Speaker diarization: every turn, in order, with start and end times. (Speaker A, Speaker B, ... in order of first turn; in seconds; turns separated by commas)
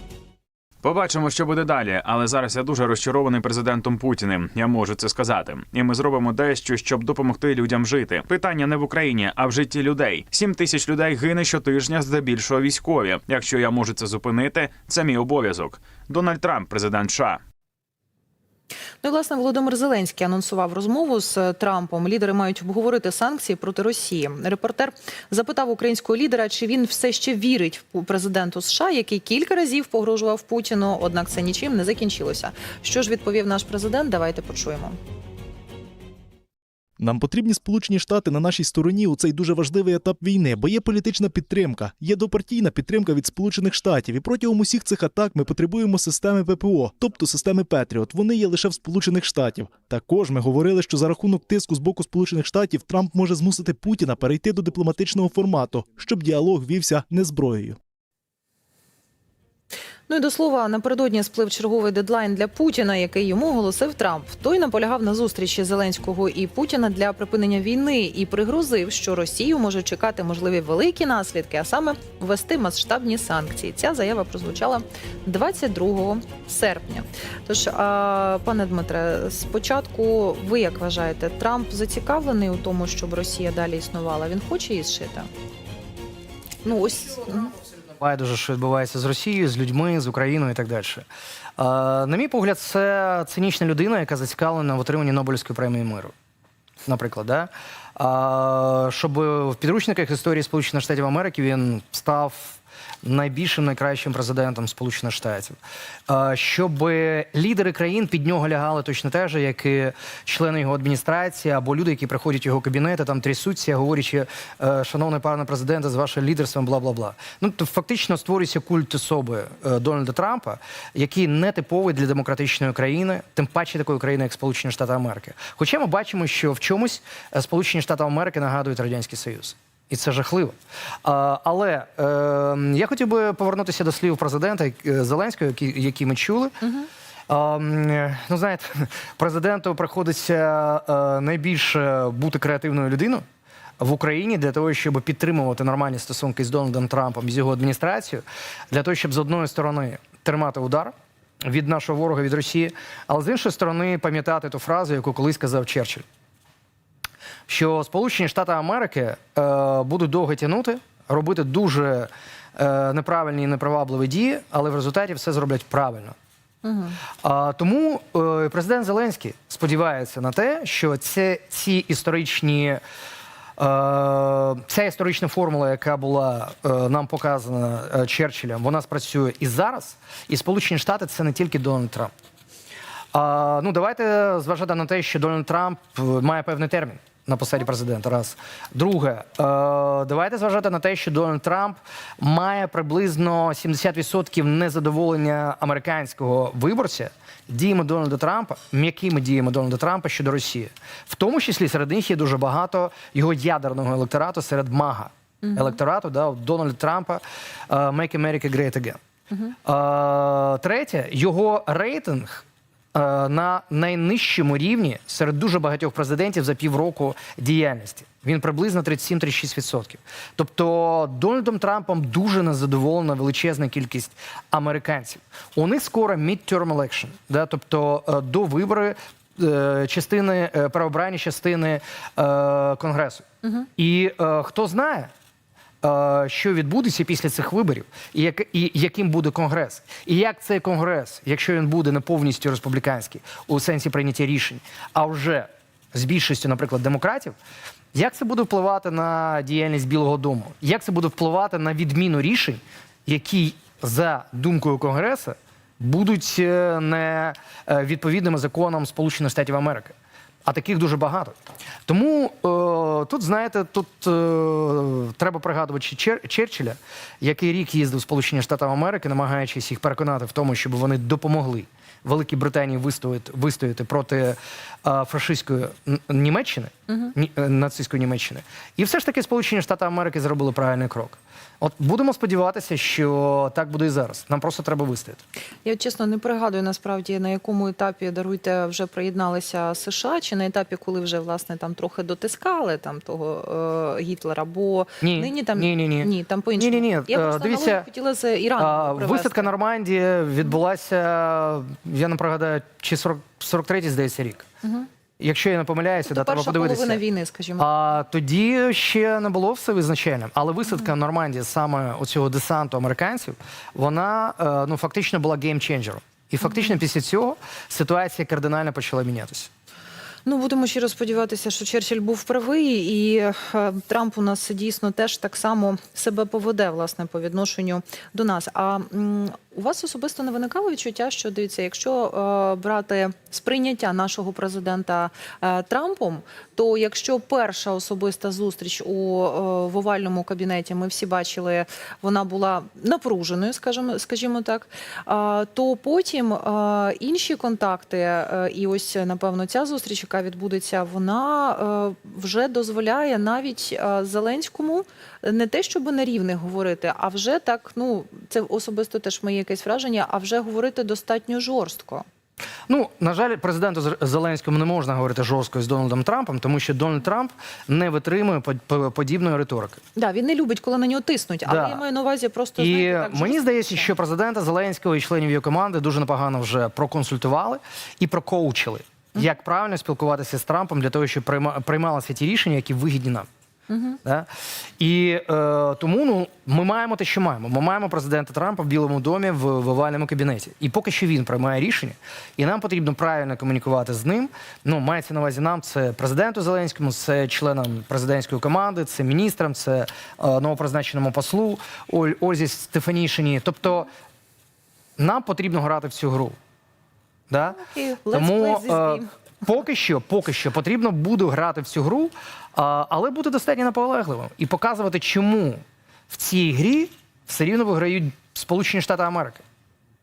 Speaker A: 0.8-17.4, Speaker B: 19.0-35.0, Speaker C: 37.0-57.8, Speaker B: 60.1-85.3, Speaker B: 86.6-87.5, Speaker D: 88.0-91.0, Speaker D: 91.6-96.1, Speaker D: 96.8-105.6, Speaker D: 106.1-136.6, Speaker B: 136.6-136.9, Speaker D: 137.3-143.2, Speaker D: 143.8-156.0, Speaker D: 157.5-166.2, Speaker B: 166.6-167.0, Speaker D: 167.2-172.8, Speaker D: 173.6-182.1, Speaker D: 183.1-209.0, Speaker B: 205.4-205.8, Speaker D: 209.6-235.1, Speaker D: 235.8-247.3, Speaker D: 247.9-285.2, Speaker B: 285.6-299.5, Speaker D: 295.0-297.9, Speaker D: 298.6-304.5, Speaker B: 304.6-304.9, Speaker D: 305.2-307.0, Speaker B: 306.0-307.7, Speaker D: 307.6-319.5, Speaker B: 320.2-362.1, Speaker D: 362.7-369.8, Speaker B: 369.9-373.9, Speaker D: 371.4-371.8, Speaker D: 372.6-383.3, Speaker B: 383.7-384.0, Speaker D: 384.8-403.9, Speaker D: 405.0-406.4, Speaker D: 407.3-407.6, Speaker B: 407.5-409.1, Speaker D: 408.1-419.4